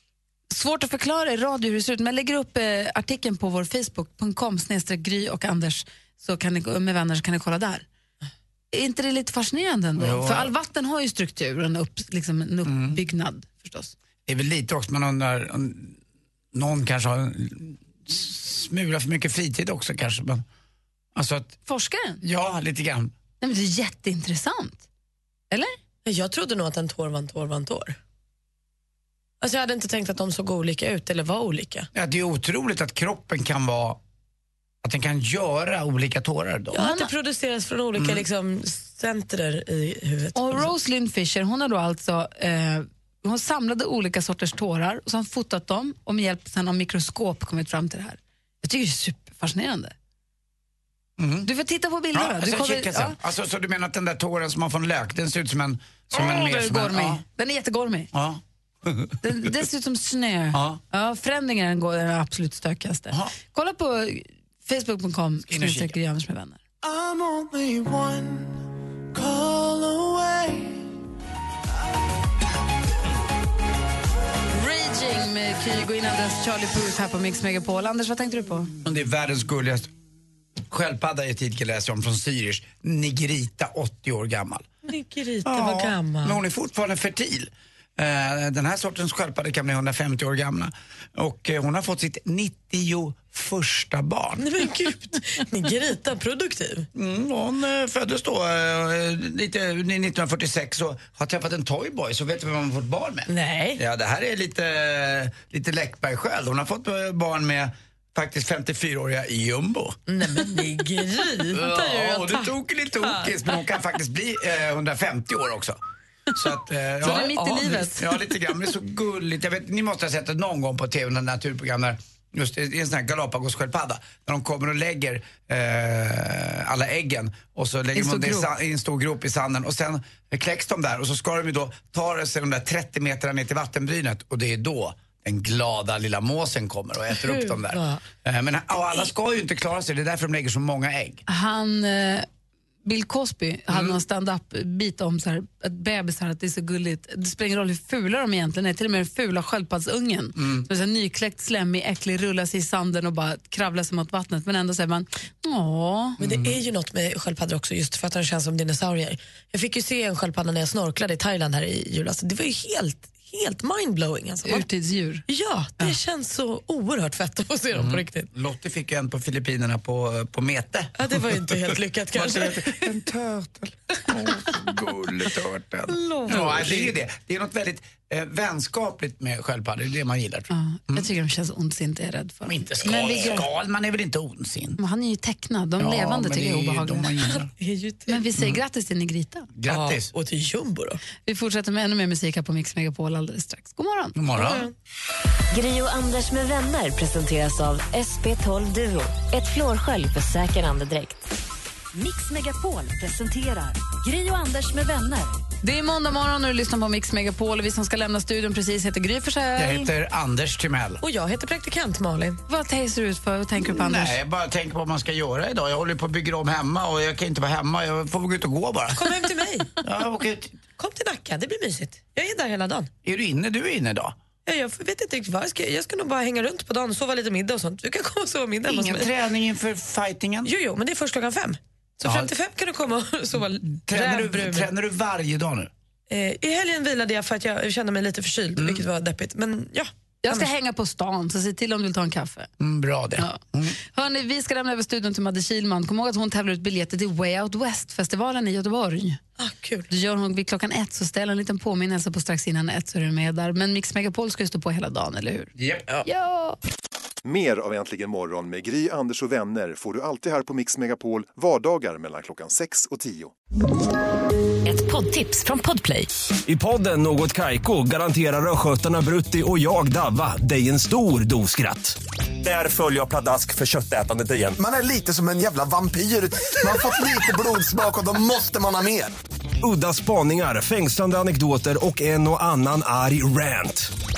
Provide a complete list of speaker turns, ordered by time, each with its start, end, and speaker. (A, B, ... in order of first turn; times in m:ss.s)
0:00.5-0:07.8 A
0:08.7-0:13.9 A
0:10.0-0:10.5 B
0:12.6-0:13.0 B
0:14.3-0:16.0 B
0:16.5-0:20.4 B
0:21.1-0:21.6 B
0:21.6-0:22.2 A
0:22.2-0:23.1 B
0:23.4-0:24.8 A
0:26.0-0:28.0 C
0:29.4-0:31.9 C
0:31.9-0:34.0 B
0:34.8-0:36.9 B
0:36.7-0:40.7 C
0:38.0-0:38.2 B
0:40.4-0:49.9 A
0:51.2-0:51.5 B
0:51.4-0:53.2 A
0:52.1-0:57.2 B
0:56.1-0:58.1 A
0:58.1-0:59.6 B
0:59.2-1:06.6 A
1:00.5-1:00.8 B
1:05.5-1:05.9 B
1:06.8-1:08.5 D
1:09.2-1:10.6 D
1:14.5-1:18.7 A
1:18.8-1:19.9 B
1:20.7-1:24.7 B
1:24.8-1:26.4 C
1:25.4-1:34.6 B
1:34.4-1:36.9 C
1:36.9-1:50.0 B
1:43.3-1:43.8 C
1:50.1-1:52.5 C
1:51.5-1:55.8 B
1:53.0-1:53.3 C
1:56.3-2:21.2 B
1:57.0-1:57.9 C
1:57.0-1:58.0 A
2:07.9-2:08.5 A
2:17.2-2:18.0 C
2:21.3-2:22.3 A
2:22.8-2:36.2 A
2:23.7-2:24.0 B
2:30.4-2:30.6 B
2:36.2-2:36.6 B
2:36.2-2:44.7 C
2:44.4-2:45.2 A
2:45.3-2:48.3 C
2:47.7-3:01.1 B
2:51.0-2:52.7 C
2:55.9-2:56.9 C
3:00.5-3:03.4 A
3:02.4-3:04.8 B
3:02.9-3:03.3 C
3:04.8-3:07.1 A
3:05.8-3:07.5 B
3:07.2-3:08.3 C
3:08.1-3:09.5 A
3:09.6-3:10.1 B
3:09.7-3:11.0 C
3:11.2-3:14.1 A
3:14.1-3:14.7 B
3:14.3-3:14.7 C
3:15.5-3:21.2 E
3:21.9-3:25.4 F
3:25.6-3:29.9 A
3:29.6-3:31.0 B
3:31.0-3:32.4 C
3:32.5-3:34.2 A
3:33.6-3:39.1 B
3:38.9-3:39.7 C
3:39.8-3:40.6 B
3:40.8-3:42.9 C
3:43.0-3:44.2 B
3:44.4-3:49.1 C
3:48.7-3:50.5 B
3:50.4-3:54.7 C
3:52.0-3:52.3 B
3:53.8-3:55.7 B
3:56.1-4:00.5 C
3:58.6-3:58.8 B
4:00.2-4:02.5 A
4:02.6-4:03.8 B
4:03.2-4:09.2 A
4:09.4-4:09.9 C
4:09.9-4:15.5 A
4:15.6-4:16.0 B
4:16.0-4:16.6 A
4:17.2-4:23.3 G
4:24.7-4:26.1 C
4:26.5-4:34.6 H
4:34.5-4:39.1 I
4:39.6-4:43.9 H